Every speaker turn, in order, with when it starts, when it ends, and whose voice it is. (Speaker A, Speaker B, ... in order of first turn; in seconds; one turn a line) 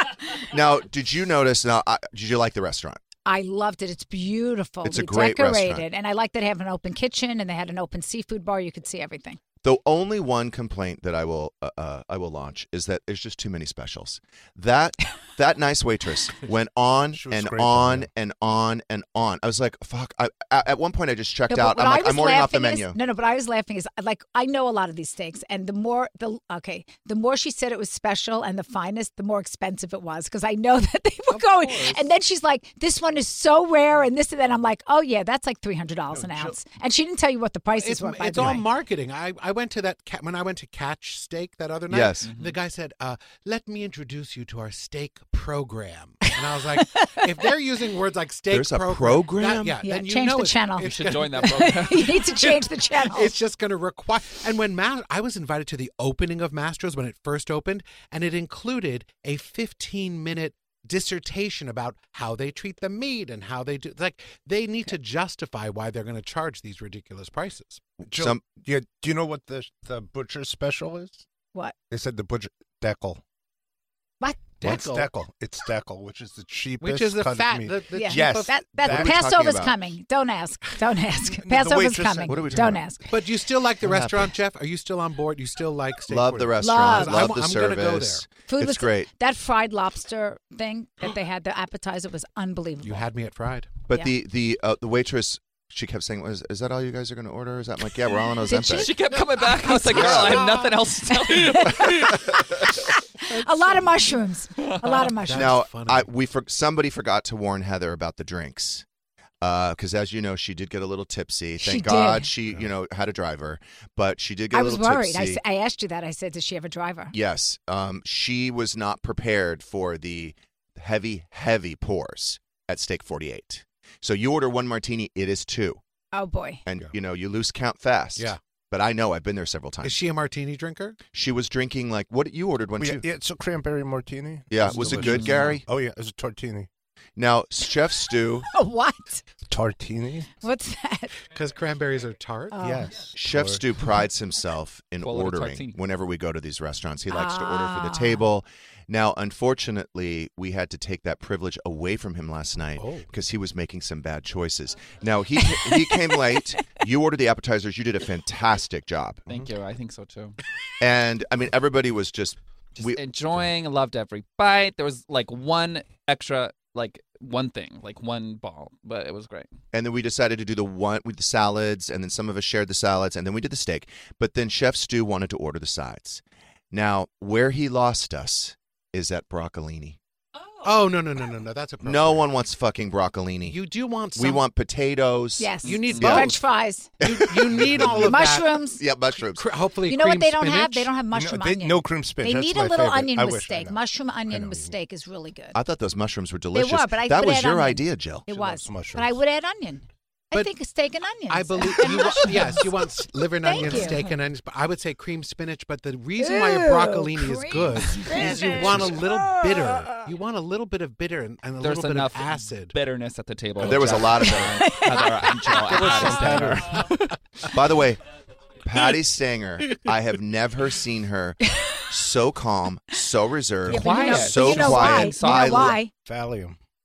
Speaker A: 0.4-3.0
Speaker B: 3.2-9.4
Speaker A: 4.8-5.8
Speaker A: 9.6-23.0
Speaker C: 17.1-18.1
Speaker B: 21.5-38.6
Speaker D: 31.5-32.0
Speaker D: 37.7-51.8
Speaker A: 41.9-42.3
Speaker E: 42.2-42.5
Speaker B: 46.8-47.2
Speaker A: 48.5-49.8
Speaker B: 49.8-53.3
Speaker E: 50.8-52.3
Speaker D: 52.4-67.8
Speaker C: 68.0-71.2
Speaker A: 68.1-68.4
Speaker C: 71.9-73.2
Speaker B: 74.2-74.5
Speaker D: 74.6-75.1
Speaker C: 74.6-79.2
Speaker D: 76.8-78.7
Speaker B: 77.9-83.2
Speaker A: 78.8-79.8
Speaker C: 81.3-82.8
Speaker A: 82.3-83.0
Speaker D: 83.1-88.2
Speaker C: 83.8-84.2
Speaker A: 86.1-89.1
Speaker B: 86.6-87.3
Speaker B: 88.5-93.1
Speaker D: 92.8-93.7
Speaker A: 93.9-98.9
Speaker B: 98.5-105.6
Speaker E: 98.7-102.5
Speaker A: 99.9-100.5
Speaker D: 103.3-103.9
Speaker E: 104.8-105.1
Speaker D: 105.2-106.1
Speaker A: 105.3-108.8
Speaker A: 109.4-115.4
Speaker B: 111.6-112.3
Speaker B: 114.5-117.1
Speaker A: 117.1-125.8
Speaker B: 126.1-126.6
Speaker A: 126.7-130.0
Speaker D: 129.8-131.0
Speaker A: 131.1-133.1
Speaker C: 132.8-136.7
Speaker A: 134.5-135.6
Speaker E: 134.9-135.5
Speaker A: 137.2-138.5
Speaker B: 138.5-139.2
Speaker C: 139.5-140.3
Speaker B: 140.4-141.1
Speaker D: 141.3-142.6
Speaker B: 142.5-142.9
Speaker C: 142.6-143.9
Speaker A: 143.2-159.4
Speaker E: 145.0-145.8
Speaker B: 147.1-148.3
Speaker D: 152.8-153.1
Speaker B: 155.4-156.4
Speaker E: 159.3-160.4
Speaker A: 160.8-163.0
Speaker E: 162.9-169.5
Speaker A: 169.7-180.0
Speaker D: 180.6-182.3
Speaker A: 181.8-183.6
Speaker D: 183.4-184.4
Speaker A: 184.1-186.4
Speaker B: 185.4-186.9
Speaker D: 185.6-186.4
Speaker A: 187.0-189.6
Speaker D: 187.0-188.6
Speaker B: 187.8-188.8
Speaker D: 189.3-190.9
Speaker B: 189.8-195.6
Speaker C: 191.1-194.8
Speaker A: 195.5-198.3
Speaker B: 196.5-202.8
Speaker C: 198.3-199.2
Speaker D: 201.3-212.8
Speaker B: 203.4-204.1
Speaker B: 206.2-210.0
Speaker E: 211.6-217.0
Speaker A: 213.6-214.8
Speaker B: 214.2-216.4
Speaker C: 215.5-217.0
Speaker A: 217.5-218.0
Speaker A: 218.6-225.8
Speaker C: 223.6-224.1
Speaker B: 223.7-225.9
Speaker E: 223.7-225.8
Speaker C: 226.0-226.6